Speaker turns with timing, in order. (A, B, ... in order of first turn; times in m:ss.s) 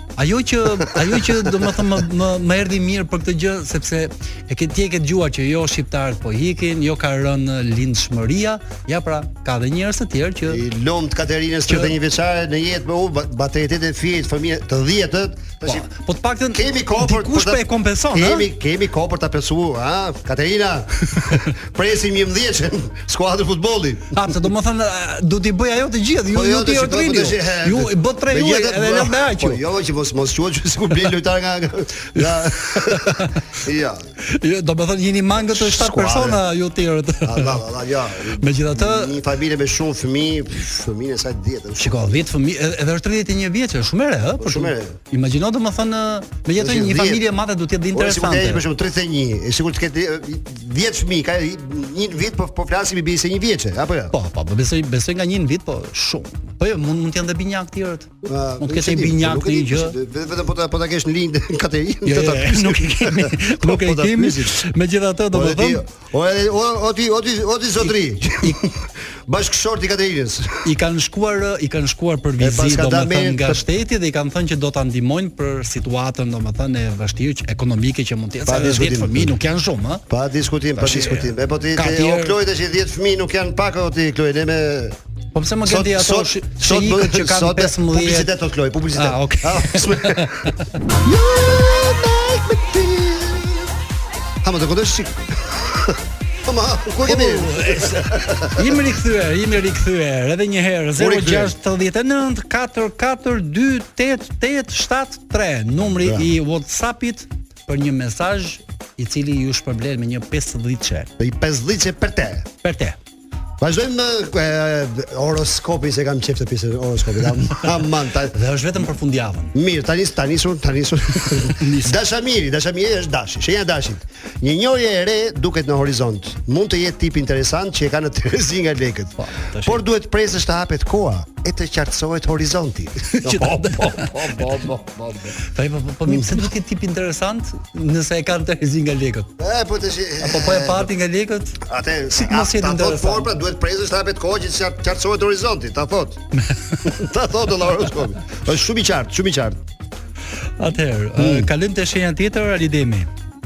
0:00.2-0:10.6 A
0:00.8-0:01.5 B
0:10.5-0:15.8 B
0:11.7-0:12.0 A
0:15.6-0:18.5 A
0:16.5-0:24.2 B
0:21.2-0:21.4 A
0:24.1-0:29.6 A
0:26.3-0:34.0 B
0:32.2-0:33.4 A
0:34.2-0:37.6 A
0:35.4-0:36.4 B
0:37.2-0:42.2 B
0:38.4-0:39.2 A
0:41.8-0:48.6 A
0:44.4-0:45.0 B
0:46.6-0:47.2 B
0:47.9-0:54.1 B
0:54.1-1:00.0 A
0:58.2-1:04.6 B
1:02.0-1:05.8 A
1:05.3-1:10.7 B
1:10.6-1:20.0 A
1:12.4-1:13.6 B
1:18.4-1:19.3 B
1:20.1-1:25.0 B
1:20.8-1:22.4 A
1:25.3-1:28.3 A
1:25.6-1:33.7 B
1:28.9-1:30.5 A
1:34.4-1:38.7 B
1:37.0-1:51.1 A
1:41.0-1:41.5 B
1:46.0-1:46.3 B
1:51.2-1:52.5 B
1:52.6-1:53.0 A
1:53.6-1:58.4 B
1:58.3-1:59.5 A
1:59.5-2:15.4 B
2:01.4-2:02.0 A
2:09.2-2:09.8 A
2:13.1-2:14.6 A
2:15.4-2:19.3 A
2:16.1-2:16.4 B
2:19.4-2:20.9 B
2:20.2-2:21.6 A
2:21.6-2:26.2 B
2:22.2-2:23.3 A
2:26.5-2:26.9 A
2:26.8-2:29.6 B
2:30.6-2:33.1 A
2:31.2-2:31.5 B